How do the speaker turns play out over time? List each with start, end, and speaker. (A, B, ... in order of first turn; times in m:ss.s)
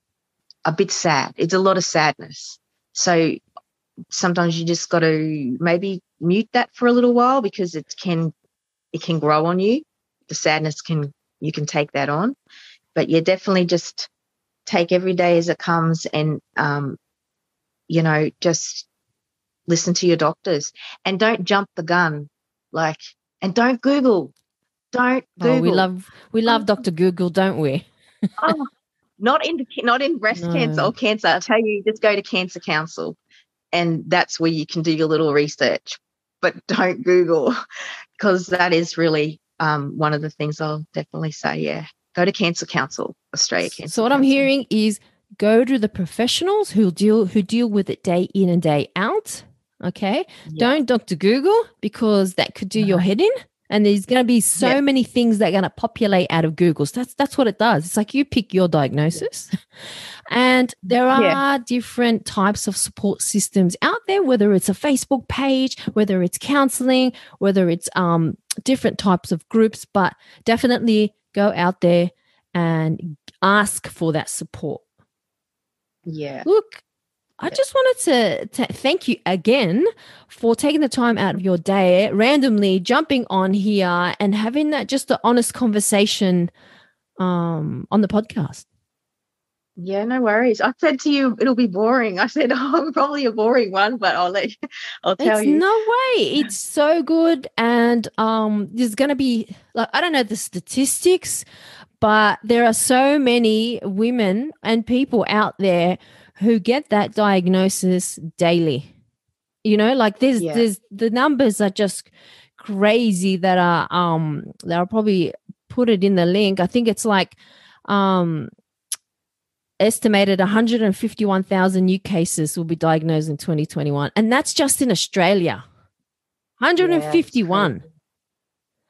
0:00.6-0:03.4 A
0:04.1-0:08.3 A
0:08.9-0:12.4 A
0:12.9-0:14.1 A
0:14.6-0:17.0 A
0:17.9-0:18.9 A
0:19.7-0:24.3 A
0:24.9-0:25.9 A
0:25.4-0:27.9 B
0:26.5-0:26.7 A
0:28.4-0:28.7 A
0:29.2-0:33.2 A
0:30.3-0:30.9 B
0:33.7-0:37.6 A
0:38.2-0:44.5 A
0:43.8-0:59.5 B
0:50.4-0:50.7 A
0:52.8-0:53.0 A
1:00.3-1:14.8 B
1:01.1-1:01.4 A
1:16.0-1:16.5 A
1:16.4-1:16.8 B
1:17.4-1:26.5 B
1:27.2-1:28.6 B
1:29.8-1:35.6 A
1:35.2-1:41.4 B
1:42.0-1:48.9 B
1:49.6-1:57.4 B
1:50.4-1:50.6 A
1:57.9-1:58.5 B
1:59.8-2:05.6 B
2:06.6-2:07.8 B
2:06.8-2:07.8 A